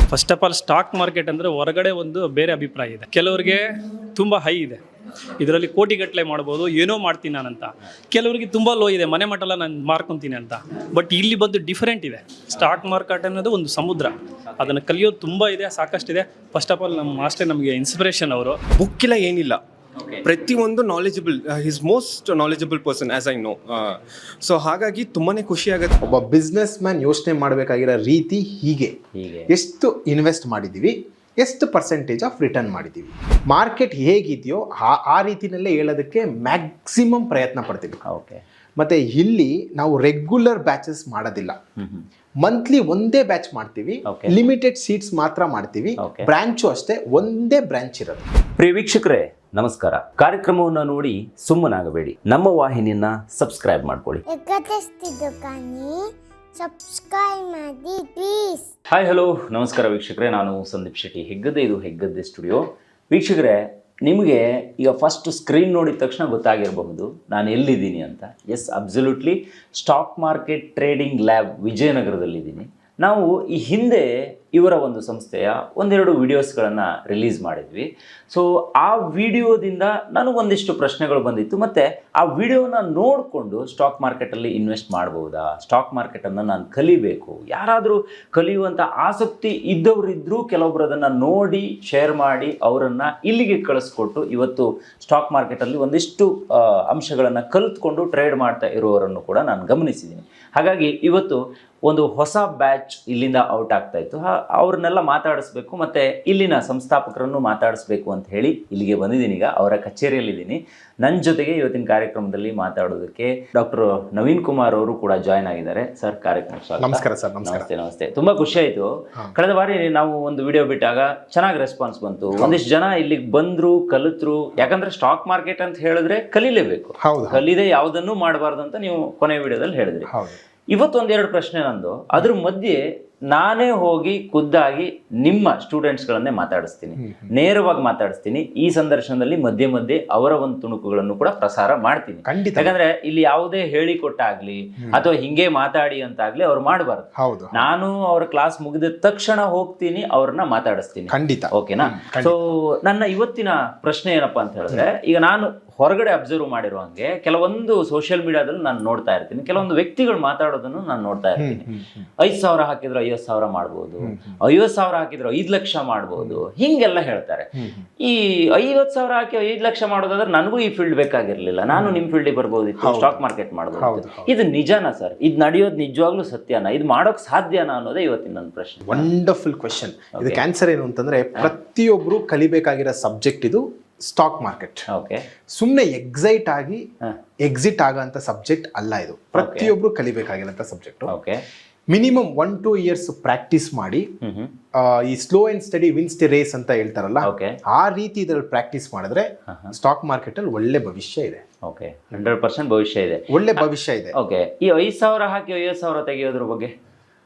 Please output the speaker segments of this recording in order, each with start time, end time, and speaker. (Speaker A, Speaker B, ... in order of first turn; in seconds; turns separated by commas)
Speaker A: 0.1-3.6, Speaker A: 4.2-4.8, Speaker A: 5.4-18.6, Speaker B: 18.8-19.6, Speaker C: 20.0-20.2, Speaker B: 20.2-26.0, Speaker D: 26.0-28.9, Speaker C: 29.2-29.5, Speaker D: 29.5-38.0, Speaker C: 38.1-38.4, Speaker D: 38.8-41.6, Speaker C: 41.8-42.1, Speaker D: 42.4-48.2, Speaker C: 44.1-44.3, Speaker C: 46.0-46.3, Speaker C: 48.6-54.2, Speaker E: 54.3-58.7, Speaker C: 58.9-130.1, Speaker D: 116.8-117.7, Speaker D: 127.0-127.4, Speaker D: 130.1-130.4, Speaker C: 130.7-132.8, Speaker C: 133.3-161.7, Speaker D: 137.0-137.3, Speaker D: 142.2-142.8, Speaker D: 147.2-147.7, Speaker D: 151.1-152.3, Speaker D: 161.4-162.1, Speaker C: 162.2-167.5, Speaker D: 164.0-164.4, Speaker D: 167.6-167.9, Speaker C: 168.0-179.1, Speaker D: 172.8-173.2, Speaker D: 173.8-174.3, Speaker D: 178.9-184.9, Speaker C: 180.2-180.4, Speaker C: 184.9-185.2, Speaker D: 185.6-186.8, Speaker D: 187.4-191.1, Speaker C: 189.4-189.7, Speaker C: 191.1-191.4, Speaker D: 191.9-194.1, Speaker C: 194.2-194.5, Speaker D: 194.8-201.4, Speaker C: 197.2-197.6, Speaker C: 199.5-199.7, Speaker C: 201.7-203.6, Speaker D: 203.3-204.1, Speaker C: 204.1-206.7